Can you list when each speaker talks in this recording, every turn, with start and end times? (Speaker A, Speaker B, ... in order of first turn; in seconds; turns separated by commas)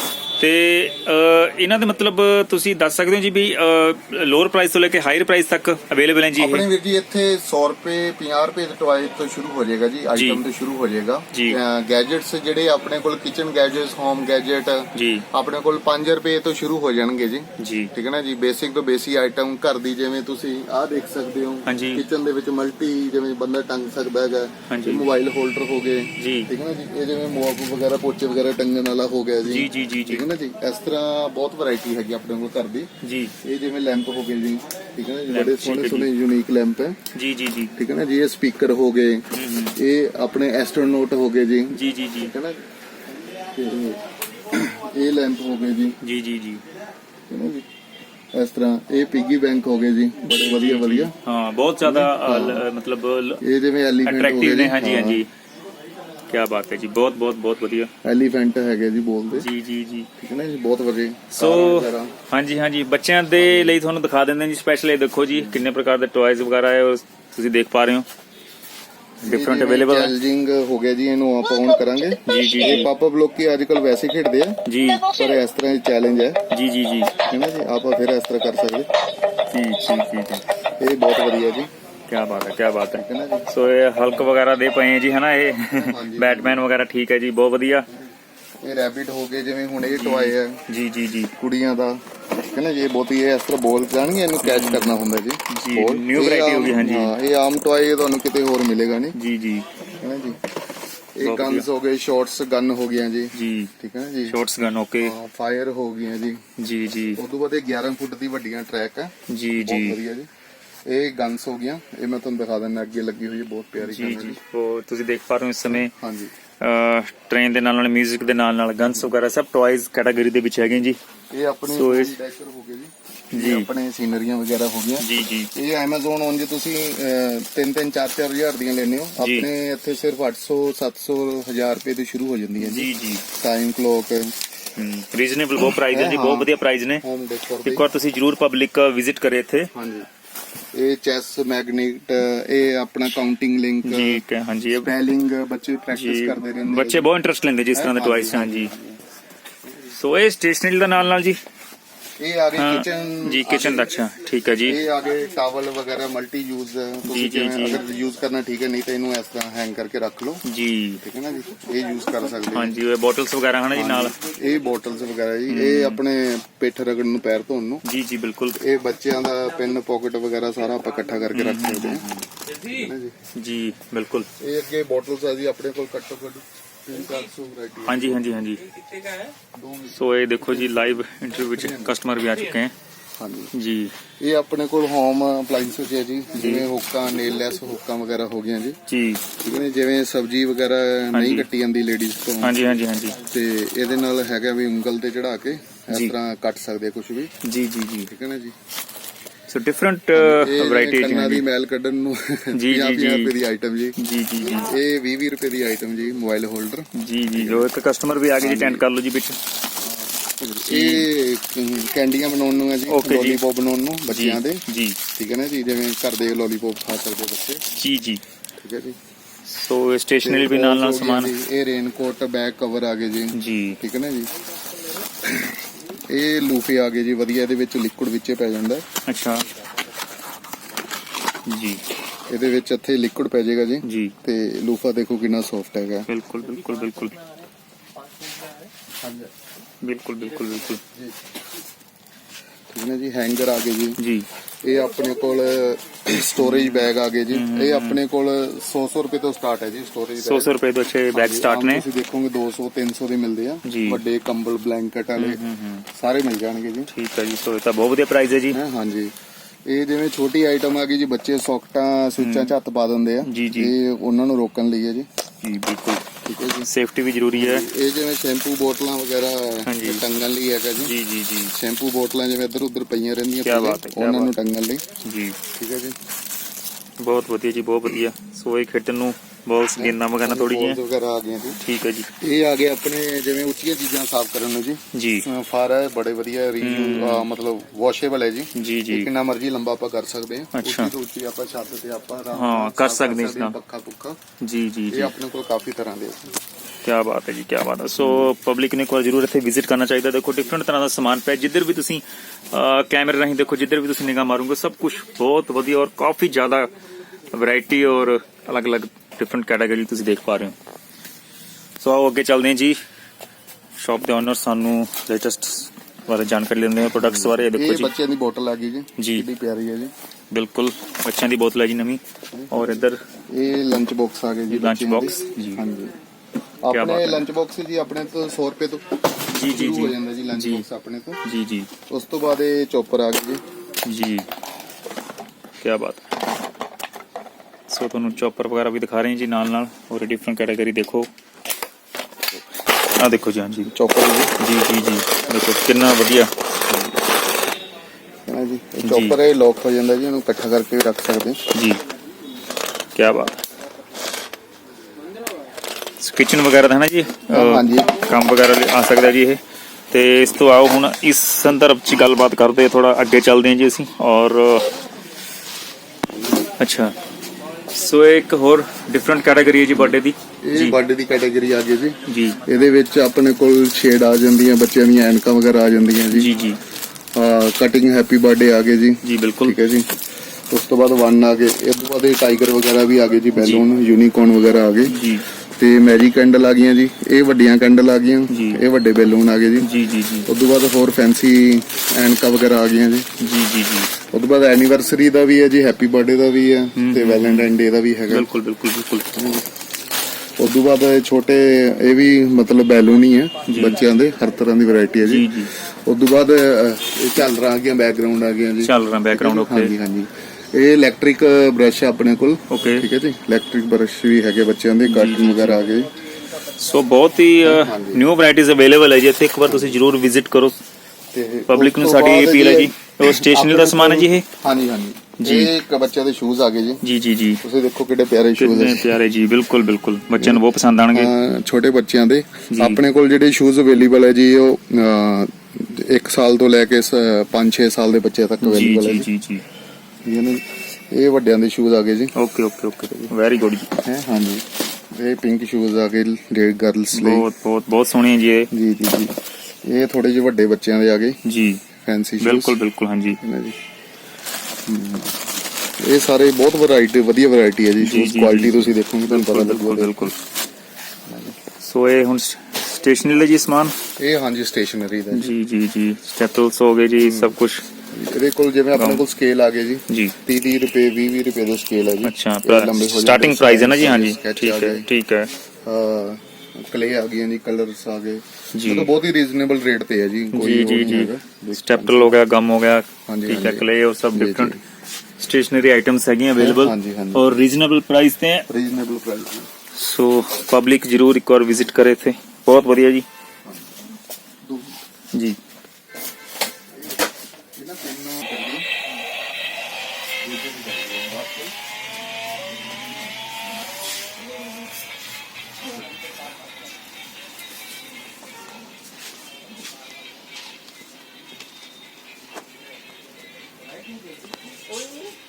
Speaker A: 0.4-6.7, Speaker B: 6.4-32.9, Speaker A: 10.2-10.4, Speaker A: 11.3-11.6, Speaker A: 14.9-15.2, Speaker A: 17.6-17.9, Speaker A: 21.7-22.0, Speaker A: 24.7-25.1, Speaker A: 26.2-26.5, Speaker A: 29.5-30.3, Speaker A: 33.0-33.3, Speaker B: 33.4-37.0, Speaker A: 35.3-36.1, Speaker A: 37.1-37.7, Speaker B: 37.8-42.6, Speaker A: 39.3-39.8, Speaker A: 41.7-42.3, Speaker B: 43.2-46.0, Speaker A: 46.0-46.6, Speaker B: 47.3-47.7, Speaker B: 48.3-51.1, Speaker A: 50.5-53.4, Speaker B: 51.8-52.7, Speaker B: 53.4-55.2, Speaker A: 54.0-55.3, Speaker A: 56.3-57.9, Speaker B: 58.0-59.5, Speaker A: 59.3-60.1, Speaker B: 60.2-62.1, Speaker A: 61.3-68.1, Speaker B: 63.4-63.8, Speaker B: 65.3-65.6, Speaker A: 69.2-70.1, Speaker B: 69.2-76.4, Speaker A: 72.2-72.9, Speaker A: 74.7-75.1, Speaker A: 76.5-77.1, Speaker B: 77.2-78.9, Speaker A: 79.5-80.4, Speaker B: 80.8-81.7, Speaker A: 82.1-87.9, Speaker B: 82.9-83.5, Speaker B: 85.8-86.6, Speaker B: 88.6-90.6, Speaker A: 89.8-91.3, Speaker B: 91.4-99.2, Speaker A: 94.4-94.9, Speaker A: 95.5-97.1, Speaker A: 99.1-99.7, Speaker B: 100.0-100.4, Speaker B: 101.1-104.4, Speaker A: 101.2-101.6, Speaker A: 103.3-103.7, Speaker A: 104.3-105.1, Speaker B: 105.0-106.4, Speaker A: 106.6-107.2, Speaker B: 107.2-110.3, Speaker A: 109.3-110.0, Speaker B: 110.9-114.4, Speaker A: 113.8-115.9, Speaker B: 115.7-116.3, Speaker A: 116.6-121.0, Speaker B: 121.3-134.4, Speaker A: 121.7-122.2, Speaker A: 123.3-123.7, Speaker A: 125.0-125.5, Speaker A: 129.2-129.5, Speaker A: 132.6-133.2, Speaker A: 134.8-137.0, Speaker B: 135.8-137.9, Speaker A: 137.6-139.7, Speaker B: 139.7-140.1, Speaker B: 140.7-144.2, Speaker A: 143.8-144.9, Speaker B: 144.8-147.1, Speaker A: 145.9-148.7, Speaker B: 147.7-149.0, Speaker A: 149.9-151.4, Speaker B: 152.2-153.9, Speaker A: 152.6-154.8, Speaker B: 154.6-160.4, Speaker A: 157.1-157.8, Speaker A: 160.4-161.0, Speaker B: 161.0-162.8, Speaker A: 162.5-164.1, Speaker B: 163.8-167.8, Speaker A: 165.5-166.0, Speaker A: 167.8-168.6, Speaker B: 168.6-172.1, Speaker A: 171.3-172.2, Speaker B: 172.6-173.1, Speaker A: 173.3-174.3, Speaker B: 174.4-178.3, Speaker A: 177.8-178.6, Speaker B: 179.5-181.9, Speaker A: 179.9-182.7, Speaker B: 183.2-183.5, Speaker A: 183.5-183.9, Speaker B: 184.2-188.8, Speaker A: 186.4-186.7, Speaker A: 188.9-189.2, Speaker B: 189.3-192.6, Speaker A: 191.1-191.4, Speaker A: 192.4-193.2, Speaker B: 193.2-197.3, Speaker A: 197.4-198.1, Speaker B: 198.1-198.6, Speaker A: 199.5-201.4, Speaker B: 200.1-207.7, Speaker A: 202.5-203.3, Speaker A: 204.0-204.7, Speaker A: 206.9-209.4, Speaker B: 208.4-208.8, Speaker B: 209.8-217.6, Speaker A: 210.6-211.1, Speaker A: 212.9-213.4, Speaker A: 214.1-215.0, Speaker A: 217.7-218.2, Speaker B: 218.6-219.0, Speaker A: 219.5-221.3, Speaker B: 220.2-224.3, Speaker A: 223.3-223.8, Speaker B: 225.2-228.9, Speaker A: 229.1-229.4, Speaker A: 231.4-231.8, Speaker B: 232.3-236.1, Speaker A: 233.8-234.1, Speaker A: 236.1-237.2, Speaker B: 239.0-239.3, Speaker A: 239.8-240.8, Speaker B: 240.9-241.2, Speaker B: 242.7-244.0, Speaker A: 244.0-244.2, Speaker B: 244.6-250.5, Speaker A: 246.4-248.0, Speaker A: 250.2-251.8, Speaker B: 251.1-255.4, Speaker A: 253.6-254.0, Speaker A: 255.2-255.9, Speaker B: 255.9-256.9, Speaker A: 256.9-258.6, Speaker B: 258.5-259.1, Speaker B: 259.6-265.1, Speaker A: 262.2-262.5, Speaker A: 263.2-263.7, Speaker A: 265.4-266.1, Speaker B: 266.2-266.7, Speaker A: 266.6-267.7, Speaker B: 267.3-270.9, Speaker A: 269.6-270.0, Speaker A: 270.8-271.6, Speaker B: 271.5-274.9, Speaker A: 273.4-274.3, Speaker A: 275.0-275.4, Speaker B: 275.5-276.0, Speaker A: 277.0-280.8, Speaker B: 279.8-281.6, Speaker A: 281.6-282.1, Speaker B: 282.1-294.2, Speaker A: 284.9-285.3, Speaker A: 286.6-287.2, Speaker A: 288.6-289.1, Speaker A: 290.6-290.9, Speaker A: 292.3-293.6, Speaker A: 294.4-295.1, Speaker B: 294.9-296.4, Speaker A: 296.8-306.7, Speaker B: 298.0-298.3, Speaker A: 307.3-310.6, Speaker A: 311.8-312.8, Speaker A: 313.8-317.9, Speaker B: 317.0-319.9, Speaker A: 319.0-319.3, Speaker A: 320.3-323.0, Speaker B: 322.3-325.9, Speaker A: 324.5-325.6, Speaker B: 326.6-331.2, Speaker A: 326.7-327.2, Speaker A: 329.3-330.6, Speaker A: 331.2-331.7, Speaker B: 331.9-333.4, Speaker A: 333.9-334.3, Speaker A: 335.6-336.0, Speaker A: 337.7-341.1, Speaker A: 342.9-343.7, Speaker B: 343.7-344.3, Speaker A: 344.4-346.3, Speaker B: 346.7-347.0, Speaker B: 348.2-351.4, Speaker A: 348.8-349.1, Speaker A: 351.5-351.8, Speaker A: 353.0-353.3, Speaker A: 356.0-364.7, Speaker B: 357.3-358.0, Speaker A: 366.6-367.0, Speaker A: 367.7-370.8, Speaker B: 369.7-376.4, Speaker A: 372.1-372.4, Speaker A: 376.1-376.6, Speaker B: 377.1-385.0, Speaker A: 379.0-379.6, Speaker A: 383.4-383.6, Speaker A: 384.9-385.2, Speaker B: 385.6-389.8, Speaker A: 388.3-388.6, Speaker A: 389.6-390.3, Speaker B: 390.2-393.1, Speaker A: 393.2-393.9, Speaker B: 393.9-398.3, Speaker A: 396.8-397.5, Speaker A: 398.1-399.4, Speaker B: 399.2-399.5, Speaker B: 400.4-415.9, Speaker A: 403.5-403.8, Speaker A: 405.0-405.5, Speaker A: 408.6-409.7, Speaker A: 412.5-412.9, Speaker A: 414.9-415.6, Speaker A: 416.6-420.6, Speaker B: 417.4-418.0, Speaker B: 419.5-419.8, Speaker B: 421.1-426.8, Speaker A: 421.5-424.2, Speaker A: 425.2-425.5, Speaker A: 426.8-427.4, Speaker B: 427.4-429.0, Speaker A: 428.4-431.1, Speaker B: 430.2-439.1, Speaker A: 432.5-432.8, Speaker A: 438.4-439.4, Speaker B: 440.0-442.1, Speaker A: 442.1-443.7, Speaker B: 443.8-447.2, Speaker A: 446.9-448.5, Speaker B: 448.5-451.2, Speaker A: 451.2-451.6, Speaker B: 451.8-452.6, Speaker A: 452.2-453.2, Speaker B: 453.2-453.6, Speaker B: 454.6-460.1, Speaker A: 457.8-460.1, Speaker B: 461.1-461.4, Speaker A: 461.6-463.8, Speaker B: 464.0-465.3, Speaker A: 465.1-467.6, Speaker B: 467.0-467.3, Speaker B: 467.9-474.9, Speaker A: 468.8-469.0, Speaker A: 469.9-470.1, Speaker A: 472.0-475.3, Speaker B: 475.6-482.2, Speaker A: 478.5-478.9, Speaker A: 480.3-484.5, Speaker B: 483.1-484.6, Speaker A: 485.2-488.5, Speaker B: 486.4-487.4, Speaker B: 488.5-489.5, Speaker A: 489.8-493.1, Speaker B: 494.4-494.8, Speaker A: 495.1-495.4, Speaker B: 496.7-497.0, Speaker B: 497.5-498.7, Speaker B: 500.2-501.5